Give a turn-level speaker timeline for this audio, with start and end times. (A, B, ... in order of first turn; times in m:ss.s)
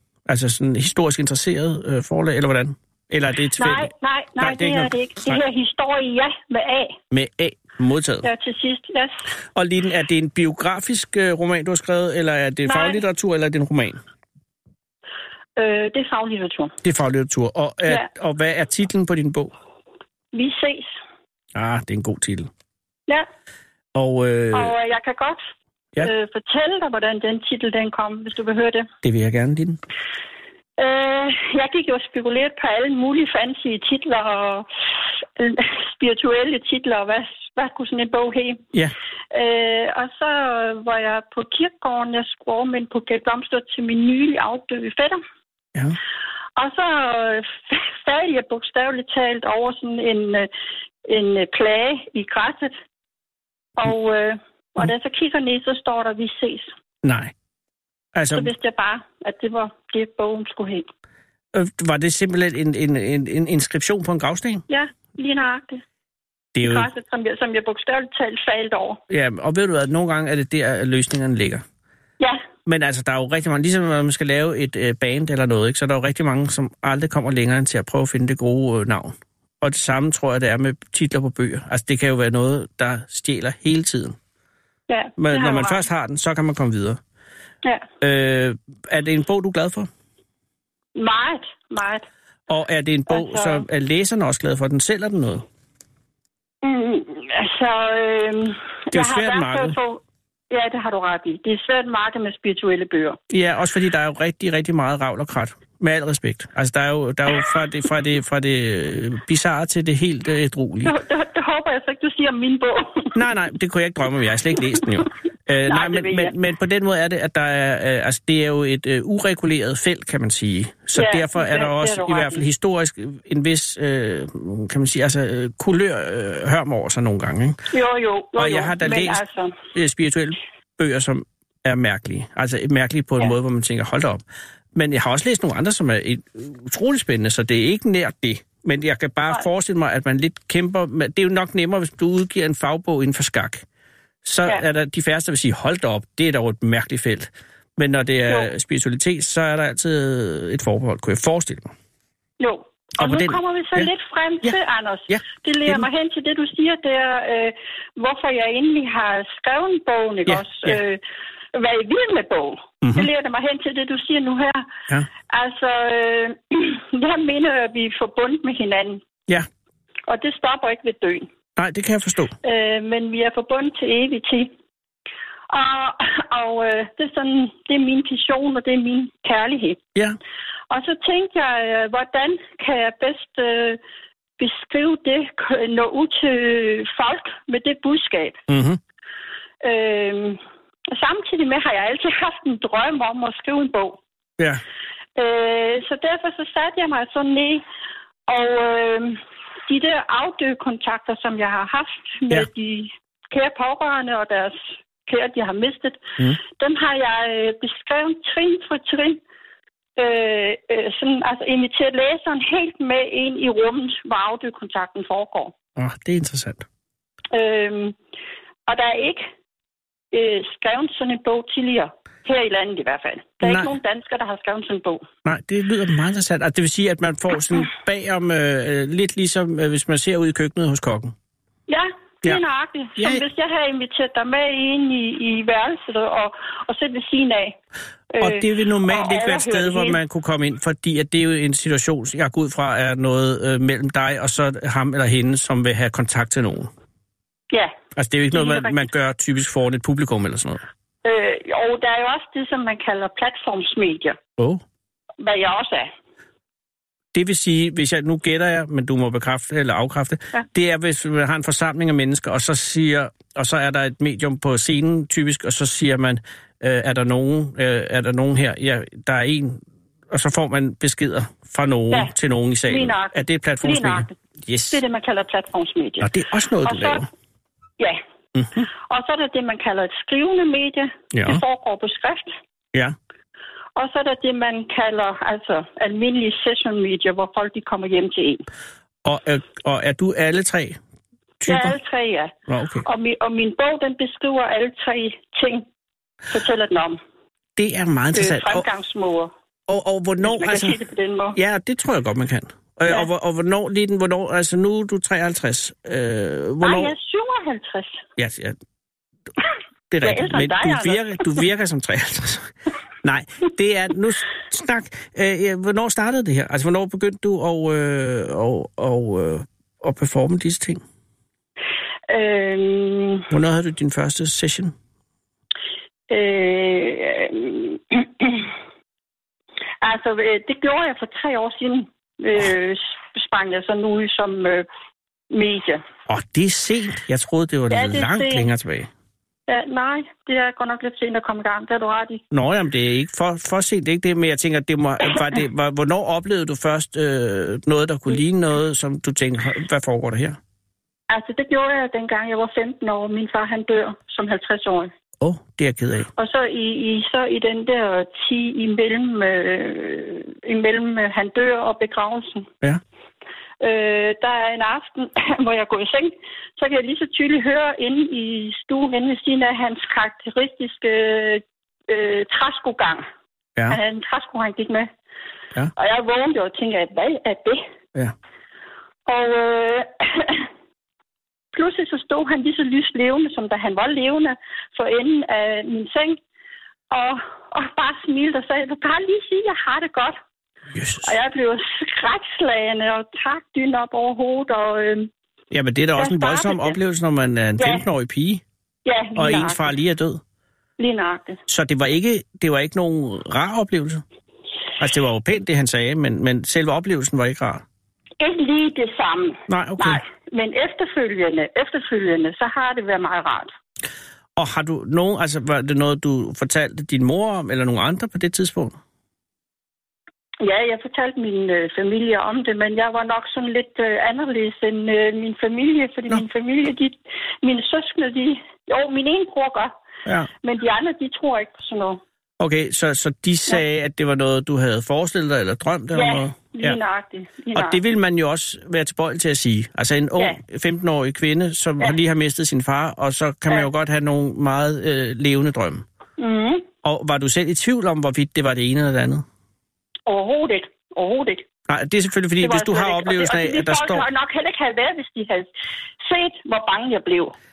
0:00.3-0:05.4 A
0:03.6-0:07.0 B
0:07.1-0:08.3 A
0:08.2-0:09.2 B
0:09.5-0:14.0 A
0:12.6-0:13.0 B
0:15.6-0:16.7 B
0:16.8-0:19.5 A
0:20.3-0:21.0 B
0:21.5-0:22.5 A
0:23.9-0:24.7 A
0:24.5-0:25.4 B
0:26.0-0:28.9 B
0:29.0-0:29.8 A
0:30.8-0:34.7 B
0:35.2-0:38.6 B
0:39.3-0:45.2 B
0:46.6-0:50.5 B
0:51.0-0:52.8 B
0:53.8-0:56.7 B
0:57.0-0:57.3 A
0:58.1-0:58.5 A
0:58.3-1:00.8 B
1:01.5-1:04.6 A
1:04.7-1:05.8 B
1:06.5-1:06.9 A
1:06.6-1:09.0 B
1:09.1-1:11.6 A
1:12.6-1:24.2 A
1:24.9-1:25.8 B
1:25.2-1:27.0 A
1:28.0-1:29.9 A
1:30.9-1:32.0 B
1:32.5-1:35.4 A
1:33.1-1:33.6 B
1:36.6-1:43.2 B
1:38.9-1:39.8 A
1:43.3-1:50.9 A
1:50.8-1:53.2 B
1:53.1-2:07.6 A
1:55.7-1:56.3 B
2:00.9-2:02.4 B
2:07.7-2:09.6 B
2:08.4-2:09.2 A
2:09.7-2:14.2 A
2:14.7-2:23.6 A
2:24.2-2:31.7 A
2:32.4-2:41.0 B
2:33.0-2:33.9 A
2:35.1-2:35.8 A
2:40.3-2:40.8 A
2:41.5-2:44.7 B
2:42.8-2:43.1 A
2:45.3-2:49.0 B
2:50.1-2:51.3 B
2:51.6-2:52.3 A
2:52.4-2:54.5 B
2:55.5-2:59.8 B
3:00.7-3:03.8 B
3:04.4-3:08.4 B
3:08.5-3:08.8 A
3:09.6-3:10.4 B
3:10.9-3:14.0 B
3:15.2-3:17.6 B
3:18.3-3:29.2 B
3:30.0-3:35.5 B
3:35.8-3:36.6 A
3:37.3-3:38.0 B
3:38.7-3:39.3 B
3:40.1-3:45.1 B
3:43.4-3:43.7 A
3:45.2-3:51.1 A
3:51.7-3:57.6 B
3:53.0-3:53.2 A
3:58.1-4:00.0 B
3:58.2-4:06.7 A
4:07.9-4:10.6 A
4:08.3-4:08.8 B
4:11.0-4:14.2 B
4:15.2-4:15.9 B
4:17.1-4:34.8 A
4:32.7-4:34.1 B
4:34.7-4:36.1 B
4:36.0-4:37.1 A
4:36.6-4:37.1 B
4:38.4-4:38.7 A
4:38.9-4:42.3 B
4:41.1-4:41.4 A
4:43.8-4:48.5 B
4:49.0-4:50.8 A
4:51.4-4:51.8 A
4:51.4-4:52.3 B
4:52.5-4:52.8 A
4:52.8-4:55.6 B
4:56.3-4:57.0 B
4:57.6-4:58.6 A
4:58.1-4:59.3 B
4:59.7-5:00.8 A
5:00.2-5:01.4 B
5:01.3-5:06.9 A
5:06.6-5:08.0 B
5:08.2-5:08.6 A
5:09.9-5:12.5 A
5:10.0-5:11.4 B
5:13.0-5:20.8 A
5:22.1-5:23.3 B
5:23.3-5:24.7 A
5:26.1-5:28.5 B
5:29.8-5:34.6 B
5:35.3-5:35.8 B
5:36.1-5:38.9 A
5:37.7-5:38.5 B
5:39.5-5:42.2 B
5:42.3-5:50.4 A
5:51.1-5:54.9 B
5:55.2-5:56.1 A
5:56.2-6:02.5 B
6:03.6-6:13.0 B
6:13.7-6:14.9 B
6:15.7-6:17.6 B
6:19.0-6:20.5 B
6:21.5-6:26.2 B
6:26.9-6:30.2 B
6:30.7-6:31.1 A
6:31.0-6:35.1 B
6:35.5-6:38.4 A
6:36.0-6:36.8 B
6:37.6-6:37.8 B
6:38.8-6:39.7 B
6:39.1-6:40.2 A
6:40.8-6:41.4 B
6:41.5-6:44.0 A
6:44.8-6:47.6 A
6:48.2-6:53.5 B
6:49.5-6:50.0 A
6:54.4-6:58.8 A
7:00.4-7:09.7 B
7:10.4-7:12.0 B
7:12.4-7:16.8 A
7:15.9-7:17.8 B
7:17.5-7:25.8 A
7:26.2-7:26.7 B
7:26.8-7:29.2 A
7:30.0-7:31.4 B
7:31.7-7:34.0 A
7:32.4-7:35.5 B
7:36.0-7:37.3 B